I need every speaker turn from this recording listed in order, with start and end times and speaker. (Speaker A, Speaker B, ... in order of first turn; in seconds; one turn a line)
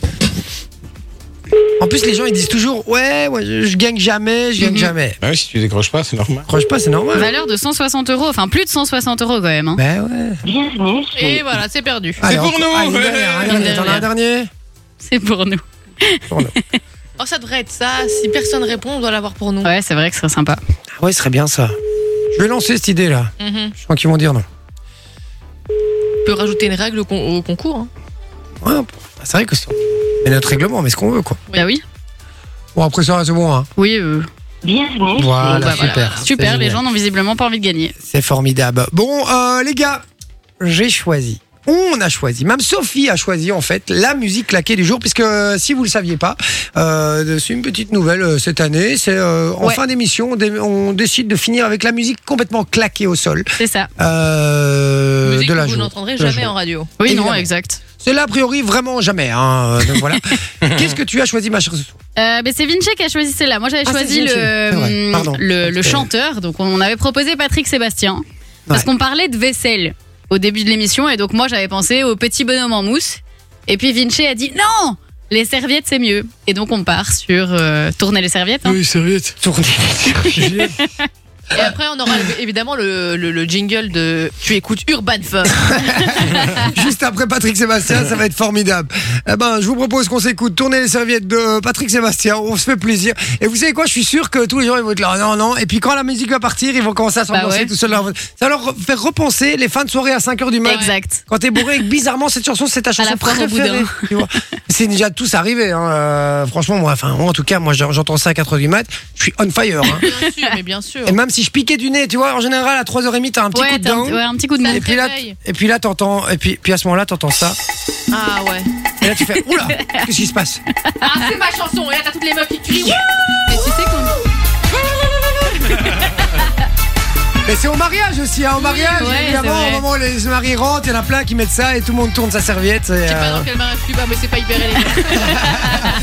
Speaker A: 1.8-5.2
Speaker B: 4.6-4.9
Speaker C: 5.2-6.5
Speaker A: 6.5-7.3
Speaker B: 7.1-9.8
Speaker A: 9.8-10.4
Speaker D: 10.4-11.4
Speaker E: 11.1-12.2
Speaker A: 12.2-14.5
Speaker C: 12.2-13.7
Speaker B: 13.5-14.1
Speaker B: 15.0-16.7
Speaker E: 17.2-19.7
Speaker B: 19.6-20.6
Speaker A: 21.0-21.8
Speaker A: 22.3-24.4
Speaker E: 23.4-23.7
Speaker E: 26.2-27.9
Speaker A: 28.6-31.4
Speaker B: 31.5-31.8
Speaker A: 32.7-33.7
Speaker B: 33.8-34.3
Speaker D: 34.6-35.8
Speaker A: 35.1-36.8
Speaker B: 35.5-37.9
Speaker E: 35.5-36.2
Speaker A: 38.0-40.0
Speaker A: 40.6-57.5
Speaker B: 53.6-53.9
Speaker E: 55.2-57.0
Speaker B: 57.0-57.8
Speaker A: 58.0-62.0
Speaker C: 60.6-60.9
Speaker B: 62.2-78.8
Speaker A: 63.8-66.1
Speaker C: 78.7-79.3
Speaker A: 79.4-80.7
Speaker B: 80.4-80.9
Speaker E: 81.5-86.2
Speaker A: 85.7-110.1
Speaker B: 97.3-97.7
Speaker B: 100.6-101.2
Speaker B: 103.0-104.1
Speaker E: 109.9-111.2
Speaker A: 111.0-117.6
Speaker B: 113.5-114.9
Speaker E: 114.6-115.4
Speaker E: 118.1-118.7
Speaker A: 119.0-120.6
Speaker E: 121.0-124.2
Speaker E: 124.9-125.8
Speaker A: 127.4-133.5
Speaker E: 128.6-129.3
Speaker B: 129.0-129.8
Speaker E: 133.0-135.9
Speaker A: 135.0-135.9